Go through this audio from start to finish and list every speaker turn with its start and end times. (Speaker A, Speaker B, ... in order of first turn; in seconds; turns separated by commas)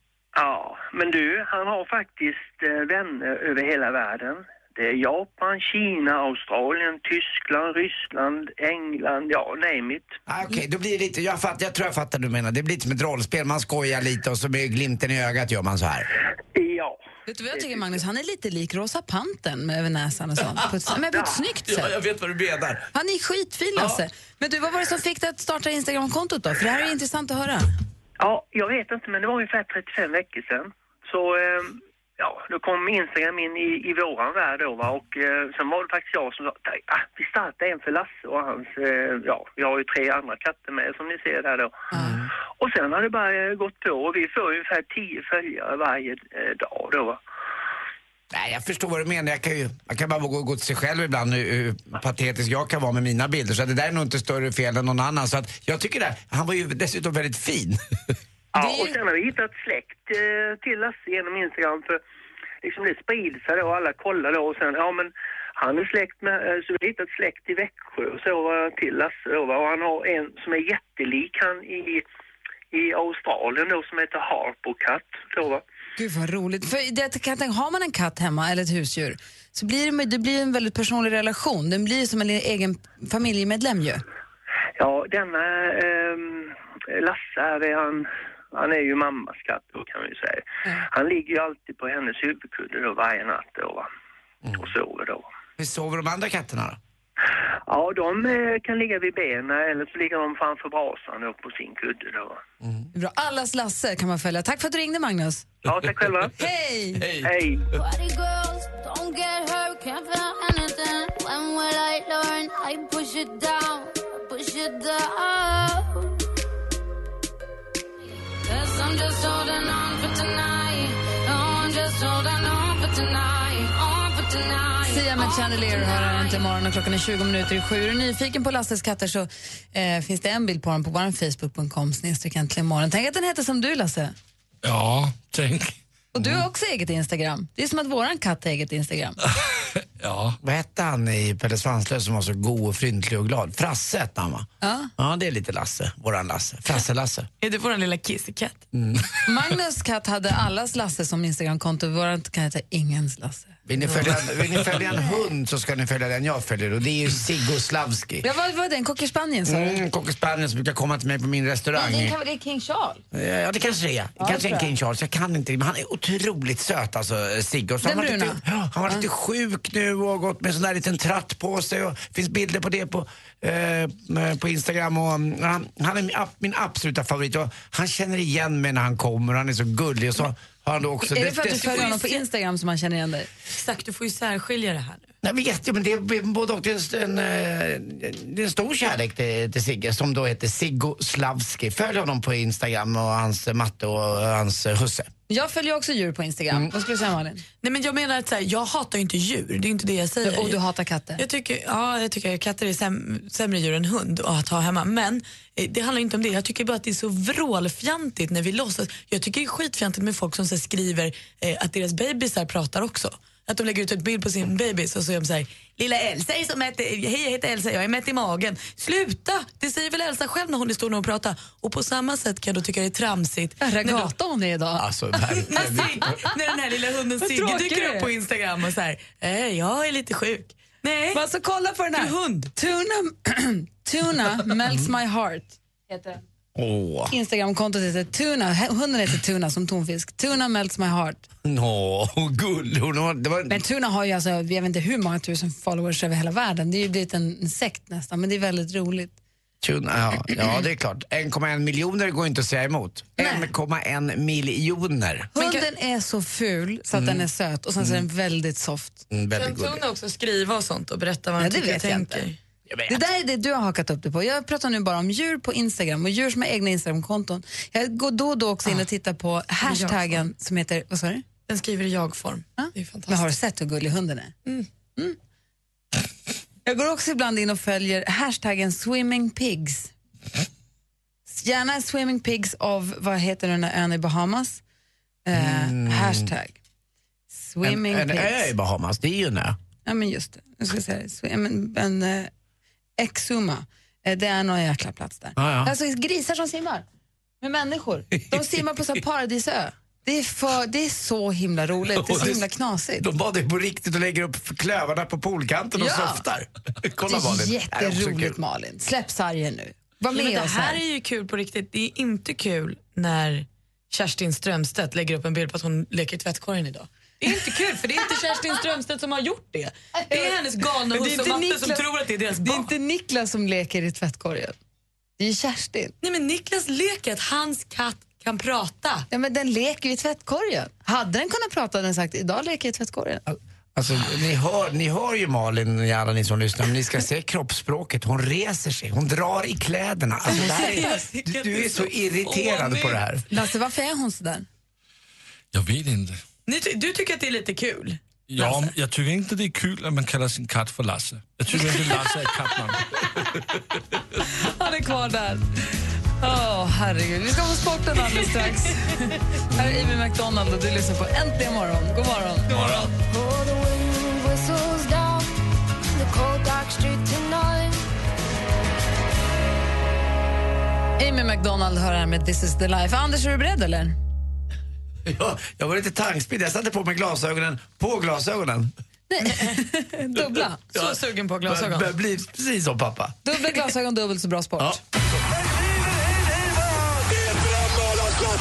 Speaker A: 0.3-10.1, Speaker B: 10.3-16.1, Speaker A: 16.5-17.0, Speaker C: 17.3-22.0, Speaker B: 21.7-22.9, Speaker C: 22.9-27.7, Speaker B: 23.8-24.0, Speaker A: 28.2-41.9, Speaker B: 41.9-42.3, Speaker A: 42.6-47.2, Speaker B: 48.3-57.8, Speaker A: 58.5-62.0, Speaker C: 58.6-59.0, Speaker A: 62.6-72.0, Speaker A: 72.7-75.6, Speaker C: 76.0-84.0, Speaker A: 84.8-93.9, Speaker A: 94.5-95.3, Speaker B: 95.6-96.8, Speaker A: 97.7-102.4, Speaker C: 102.9-105.5, Speaker A: 105.7-106.3, Speaker C: 106.3-107.1, Speaker B: 107.0-107.3, Speaker A: 107.2-107.7, Speaker D: 107.7-116.2, Speaker D: 118.5-126.4, Speaker C: 124.9-134.1, Speaker E: 134.6-135.8, Speaker C: 136.1-139.2, Speaker E: 140.0-140.4, Speaker B: 140.4-147.3, Speaker C: 144.6-144.9, Speaker F: 147.4-148.6, Speaker B: 148.7-149.1, Speaker C: 149.3-154.1, Speaker B: 153.7-158.3, Speaker C: 154.7-155.3, Speaker C: 158.2-159.8, Speaker B: 159.5-162.2, Speaker C: 161.8-163.0, Speaker B: 163.1-181.9, Speaker C: 164.2-164.7, Speaker C: 167.8-169.0, Speaker C: 181.1-183.3, Speaker F: 181.5-182.2, Speaker F: 183.5-185.1, Speaker B: 185.2-195.1, Speaker C: 195.3-197.4, Speaker F: 197.6-200.6, Speaker C: 200.2-201.2, Speaker F: 201.2-224.1, Speaker C: 223.6-224.9, Speaker B: 224.8-226.2, Speaker F: 225.4-231.2, Speaker C: 227.2-228.1, Speaker C: 231.1-236.2, Speaker F: 231.9-232.5, Speaker B: 236.6-237.1, Speaker C: 237.1-241.3, Speaker B: 241.4-243.6, Speaker C: 243.5-249.2, Speaker B: 249.6-255.3, Speaker C: 253.2-253.5, Speaker F: 255.3-255.7, Speaker C: 255.3-259.1, Speaker B: 256.9-257.2, Speaker B: 259.1-259.8, Speaker F: 259.3-262.4, Speaker C: 261.4-262.3, Speaker B: 262.7-263.1, Speaker C: 262.9-271.2, Speaker F: 269.6-270.2, Speaker F: 271.5-273.2, Speaker C: 272.6-274.3, Speaker C: 276.6-279.9, Speaker C: 281.3-284.6, Speaker C: 285.2-286.6, Speaker B: 285.3-286.3, Speaker C: 287.3-288.5, Speaker B: 287.6-289.6, Speaker C: 289.9-292.3, Speaker C: 293.0-296.8, Speaker B: 295.4-295.7, Speaker C: 297.4-303.1, Speaker B: 301.9-302.5, Speaker B: 303.0-308.4, Speaker C: 305.8-306.2, Speaker C: 307.1-310.8, Speaker F: 310.1-322.7, Speaker C: 317.3-317.8, Speaker C: 320.0-320.4, Speaker C: 320.9-321.9, Speaker C: 322.4-324.6, Speaker C: 325.2-325.9, Speaker F: 326.0-329.1, Speaker C: 329.1-333.3, Speaker B: 333.8-343.2, Speaker F: 340.3-343.0, Speaker C: 340.5-340.8, Speaker C: 343.3-344.5, Speaker E: 345.5-346.2, Speaker F: 346.5-348.5, Speaker E: 348.3-353.4, Speaker C: 351.5-352.0, Speaker C: 354.2-355.4, Speaker C: 356.2-362.8, Speaker E: 362.5-362.9, Speaker D: 362.9-365.3, Speaker D: 365.9-367.8, Speaker C: 371.0-374.0, Speaker B: 375.1-378.7, Speaker C: 379.1-380.6, Speaker B: 380.7-383.2, Speaker F: 380.7-381.9, Speaker C: 383.2-384.8